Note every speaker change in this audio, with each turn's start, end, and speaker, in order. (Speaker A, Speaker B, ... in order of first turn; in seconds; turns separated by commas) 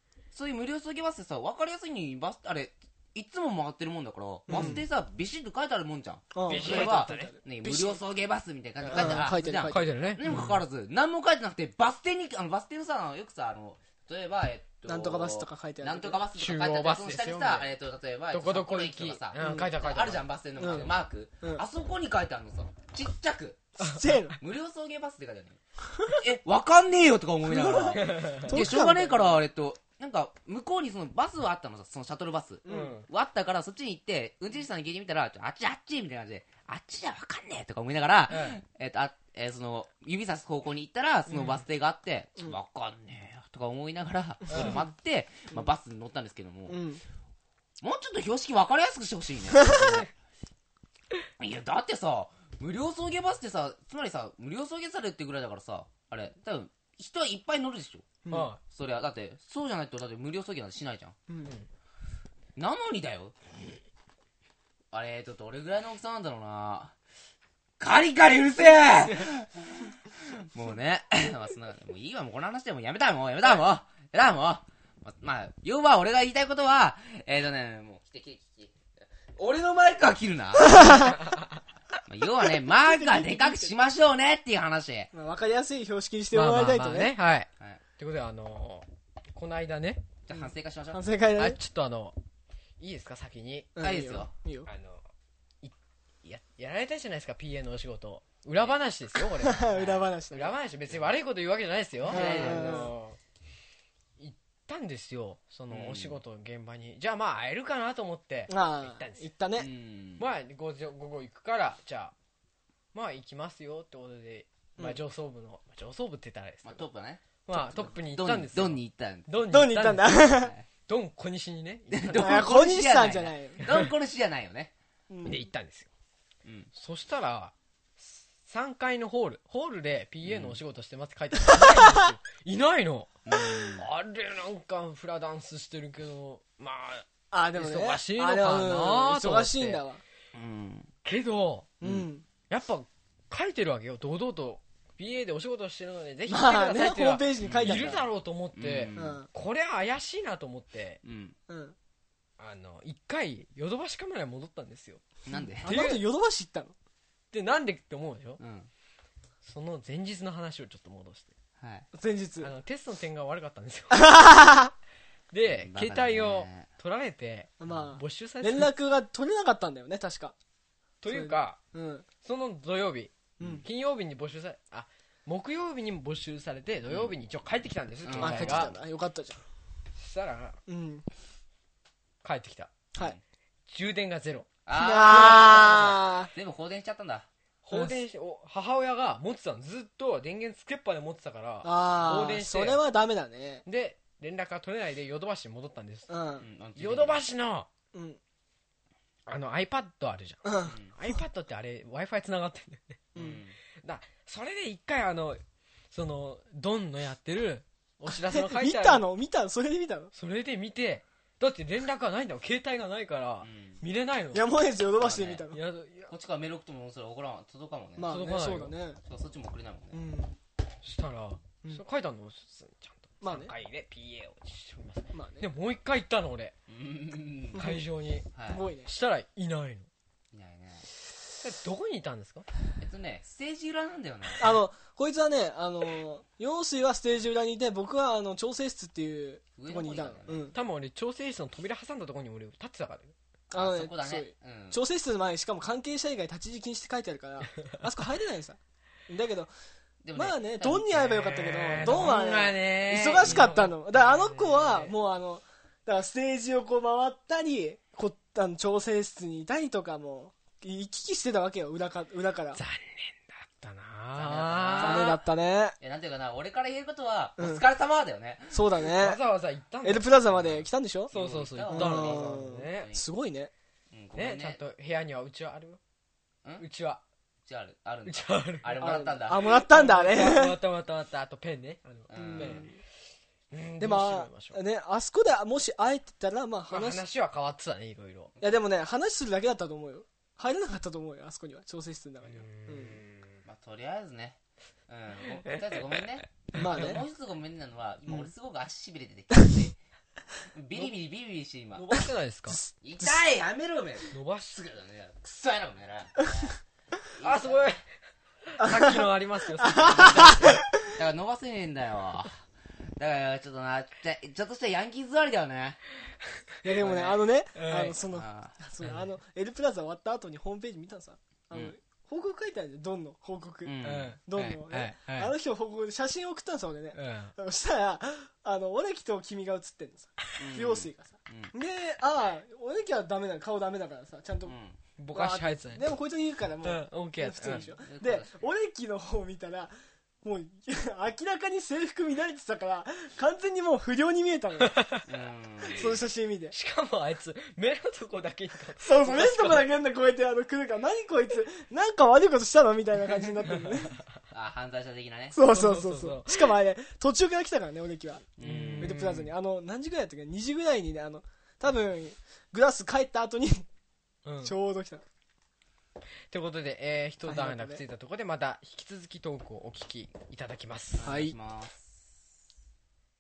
Speaker A: 0.3-23.8, Speaker B: 4.5-4.8, Speaker C: 4.5-4.8, Speaker B: 6.3-8.0, Speaker C: 6.5-7.3, Speaker B: 8.8-9.9, Speaker C: 9.7-10.6, Speaker B: 14.8-16.2, Speaker C: 16.3-17.7, Speaker C: 18.3-20.3, Speaker B: 19.4-19.7, Speaker B: 20.6-21.6, Speaker B: 23.8-24.4, Speaker A: 24.4-46.8, Speaker B: 27.5-29.4, Speaker C: 28.0-28.5, Speaker B: 32.6-33.0, Speaker C: 32.7-33.0, Speaker C: 38.3-38.6, Speaker C: 41.3-41.6, Speaker C: 44.5-44.8, Speaker B: 44.5-44.8, Speaker B: 46.7-47.0, Speaker A: 47.8-50.1, Speaker B: 49.5-50.0, Speaker A: 51.4-61.1, Speaker B: 58.2-58.5, Speaker C: 58.3-58.6, Speaker A: 62.5-63.3, Speaker A: 64.9-66.9, Speaker A: 67.8-78.8, Speaker A: 79.3-81.2, Speaker B: 80.6-81.2, Speaker A: 82.0-85.1, Speaker B: 82.7-83.7, Speaker B: 85.1-87.1, Speaker C: 86.3-90.0, Speaker A: 90.2-91.0, Speaker B: 90.3-91.6, Speaker C: 91.4-92.2, Speaker C: 92.8-93.7, Speaker B: 93.8-94.7, Speaker A: 93.8-94.3, Speaker C: 94.7-95.0, Speaker C: 95.6-99.8, Speaker B: 99.4-100.5, Speaker A: 99.7-100.0, Speaker C: 100.3-103.2, Speaker A: 102.0-102.9, Speaker B: 102.1-102.9, Speaker C: 104.2-109.2, Speaker A: 105.7-106.2, Speaker B: 108.5-109.7, Speaker A: 109.5-110.2, Speaker C: 110.2-112.1, Speaker C: 112.9-116.8, Speaker A: 116.6-119.3, Speaker C: 117.5-120.2, Speaker B: 119.5-120.5, Speaker A: 120.2-120.7, Speaker C: 120.9-122.3, Speaker A: 121.9-124.7, Speaker B: 122.1-123.6, Speaker B: 125.1-125.4, Speaker C: 125.2-125.9, Speaker A: 126.4-126.7, Speaker C: 126.7-127.5, Speaker C: 128.1-139.8, Speaker A: 130.2-130.6, Speaker B: 131.4-132.0, Speaker A: 133.3-133.8, Speaker B: 137.3-140.0, Speaker A: 140.3-140.9, Speaker C: 141.0-141.7, Speaker B: 141.8-142.2, Speaker A: 141.8-142.1, Speaker C: 142.5-151.0, Speaker B: 146.3-148.0, Speaker A: 147.4-148.0, Speaker A: 148.6-149.2, Speaker B: 148.9-149.3, Speaker A: 151.0-151.3, Speaker B: 151.5-151.8, Speaker C: 152.4-155.0, Speaker A: 155.2-155.7, Speaker B: 155.6-156.7, Speaker C: 155.6-156.0, Speaker C: 157.3-158.4, Speaker A: 158.4-158.7, Speaker C: 159.4-161.3, Speaker A: 161.6-161.9, Speaker B: 161.9-162.5, Speaker C: 162.4-164.3, Speaker B: 163.9-164.7, Speaker C: 165.3-168.7, Speaker A: 165.4-166.7, Speaker B: 167.6-170.3, Speaker C: 171.0-171.6, Speaker B: 171.1-172.1, Speaker C: 172.2-178.7, Speaker B: 173.4-173.6, Speaker A: 173.4-173.6, Speaker A: 176.9-177.1, Speaker A: 178.0-178.7, Speaker B: 178.2-179.4, Speaker C: 180.0-180.6, Speaker B: 180.7-181.1, Speaker C: 182.2-182.7, Speaker C: 183.7-184.5, Speaker A: 184.7-187.3, Speaker B: 184.8-186.3, Speaker C: 187.6-192.8, Speaker B: 187.7-188.0, Speaker B: 191.6-193.6, Speaker C: 193.6-196.2, Speaker B: 196.1-196.4, Speaker A: 196.4-197.2, Speaker C: 196.8-197.7, Speaker B: 197.9-198.2, Speaker C: 199.3-203.0, Speaker B: 200.4-200.8, Speaker A: 203.1-203.6, Speaker B: 203.2-203.4, Speaker C: 203.8-209.0, Speaker B: 208.2-210.1, Speaker C: 210.1-214.4, Speaker A: 213.4-213.8, Speaker B: 214.3-215.6, Speaker A: 215.0-215.4, Speaker C: 215.5-216.1, Speaker A: 216.1-218.1, Speaker B: 218.0-219.0, Speaker C: 218.1-218.7, Speaker A: 219.1-220.0, Speaker B: 219.9-220.3, Speaker C: 220.8-226.5, Speaker B: 223.2-223.5, Speaker B: 225.1-225.5, Speaker A: 226.7-227.8, Speaker C: 227.5-228.3, Speaker A: 228.3-228.6, Speaker B: 228.5-228.9, Speaker C: 228.8-229.9, Speaker A: 230.3-230.9, Speaker C: 231.4-232.5, Speaker A: 232.8-234.5, Speaker B: 234.3-240.6, Speaker A: 239.6-240.5, Speaker C: 240.5-243.1, Speaker B: 243.5-249.5, Speaker A: 243.5-244.8, Speaker A: 250.0-252.1, Speaker B: 250.1-262.6, Speaker C: 251.0-254.9, Speaker C: 262.5-265.2, Speaker A: 264.1-265.2, Speaker B: 264.8-265.8, Speaker A: 265.8-268.7, Speaker B: 267.4-267.6, Speaker B: 268.5-269.2, Speaker C: 269.0-270.1, Speaker B: 269.8-271.1, Speaker A: 270.3-273.0, Speaker C: 271.1-272.9, Speaker B: 271.7-273.5, Speaker A: 273.9-274.6, Speaker C: 274.1-275.8, Speaker C: 276.6-277.0, Speaker A: 277.4-279.6, Speaker C: 278.0-279.0, Speaker B: 278.8-280.6, Speaker C: 279.5-282.7, Speaker A: 282.1-282.7, Speaker B: 282.1-282.8, Speaker C: 283.5-284.6, Speaker B: 283.8-287.0, Speaker C: 286.7-288.3, Speaker B: 288.4-293.0, Speaker C: 292.3-293.4, Speaker A: 293.4-299.8, Speaker B: 296.5-297.0, Speaker A: 300.5-302.0, Speaker C: 301.7-302.6, Speaker B: 302.5-303.2, Speaker A: 302.8-306.6, Speaker C: 304.1-304.6, Speaker A: 307.1-307.8, Speaker C: 307.2-307.8, Speaker C: 308.5-310.5, Speaker B: 308.6-309.0, Speaker B: 309.6-310.8, Speaker A: 309.8-312.4, Speaker A: 313.0-315.8, Speaker B: 316.6-334.5, Speaker C: 316.7-317.9, Speaker A: 318.1-318.6, Speaker A: 323.6-324.1, Speaker C: 323.8-325.3, Speaker C: 326.9-327.3, Speaker A: 330.4-331.5, Speaker A: 334.4-334.8, Speaker C: 335.0-335.8, Speaker B: 335.1-344.8, Speaker C: 336.6-337.7, Speaker A: 337.6-338.3, Speaker C: 344.6-345.0, Speaker A: 345.1-346.0, Speaker B: 345.7-346.5, Speaker C: 346.5-349.7, Speaker B: 348.8-354.0, Speaker C: 353.5-353.7, Speaker A: 354.3-355.4, Speaker B: 355.3-363.7, Speaker C: 355.5-356.5, Speaker A: 358.4-359.0, Speaker C: 358.4-359.3, Speaker C: 364.2-364.5, Speaker B: 364.4-365.1, Speaker C: 366.3-371.1, Speaker B: 367.2-367.8, Speaker A: 371.0-372.1, Speaker B: 371.0-371.4